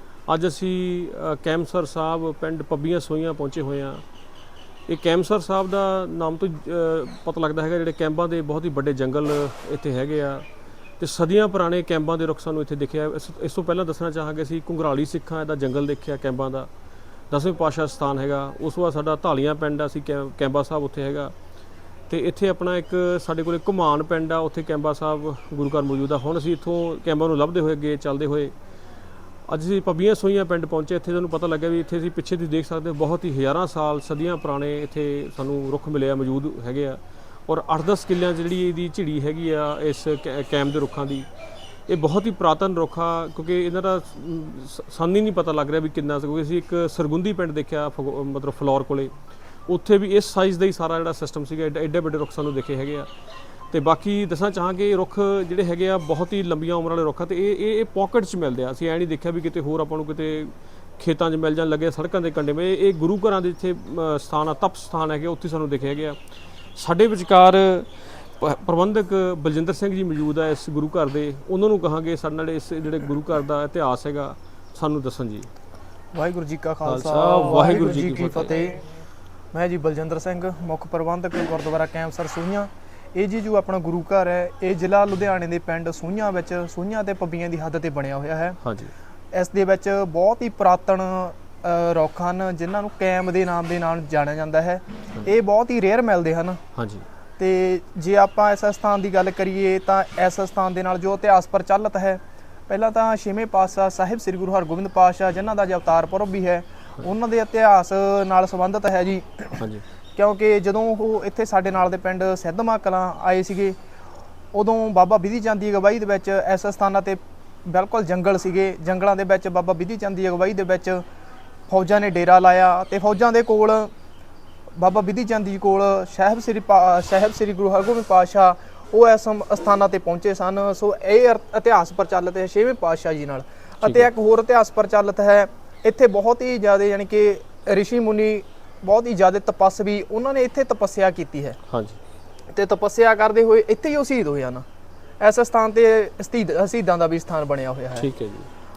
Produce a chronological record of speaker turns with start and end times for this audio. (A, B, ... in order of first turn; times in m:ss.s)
0:00.3-0:04.0 A
0:04.9-0:10.4 A
0:11.0-0:16.7 A
0:17.3-0:21.3 A
0:22.1-0:28.5 A
0:29.5-0:41.3 A
0:41.9-0:49.2 A
0:49.7-0:53.1 A
0:53.7-1:06.2 A
1:06.8-1:15.5 A
1:16.1-1:18.8 B
1:16.8-1:18.6 A
1:19.5-1:28.6 B
1:28.6-1:28.9 A
1:29.3-1:36.6 B
1:36.8-1:37.1 A
1:37.4-1:53.8 B
1:49.6-1:49.8 A
1:54.5-2:01.0 B
2:01.7-2:03.9 B
2:04.8-2:21.6 B
2:13.8-2:14.1 A
2:21.7-2:22.0 A
2:22.5-2:24.6 B
2:25.2-2:28.1 B
2:28.0-2:28.5 A